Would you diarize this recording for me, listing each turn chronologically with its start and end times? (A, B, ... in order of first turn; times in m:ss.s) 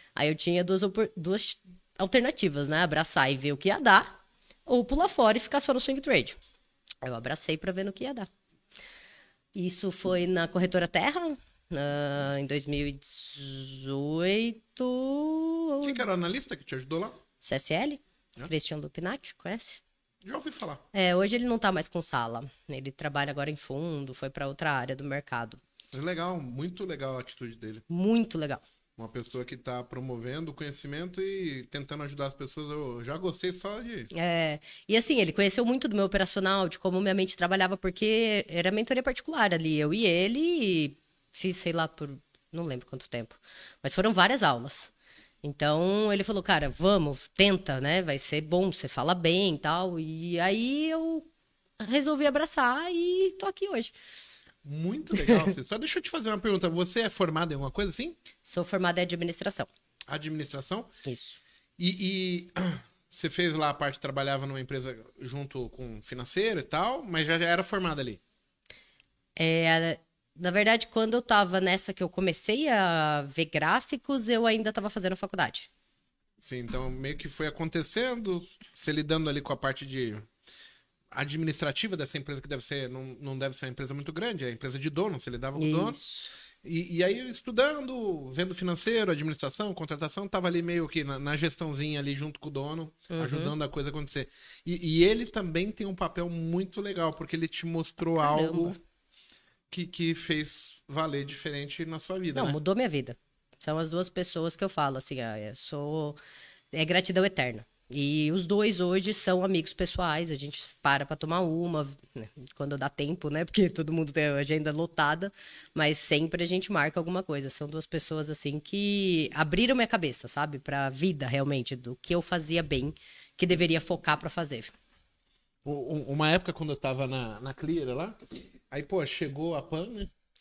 0:00.2-0:04.2 A
0:04.7-0:06.4 A
0:07.0-0:08.3 A
0:09.5-0:16.0 A
0:15.8-0:17.2 B
0:17.4-0:19.8 A
0:20.2-0:20.8 B
0:20.9-0:25.6 A
0:25.9-0:27.8 B
0:27.9-0:28.6 A
0:29.0-0:34.1 B
0:34.1-0:44.9 A
0:45.4-0:51.2 A
0:51.8-0:53.9 A
0:54.6-0:58.2 B
0:58.4-0:59.7 A
1:00.1-1:00.9 B
1:01.0-1:01.4 A
1:01.8-1:08.2 B
1:09.4-1:15.7 A
1:16.4-1:20.2 B
1:21.1-1:26.0 B
1:25.6-1:26.3 A
1:26.6-1:38.8 B
1:33.1-1:33.5 A
1:38.2-1:38.8 A
1:39.7-1:42.6 B
1:42.3-1:46.2 A
1:46.7-2:04.7 A
2:05.6-2:08.2 B
2:08.7-2:10.1 B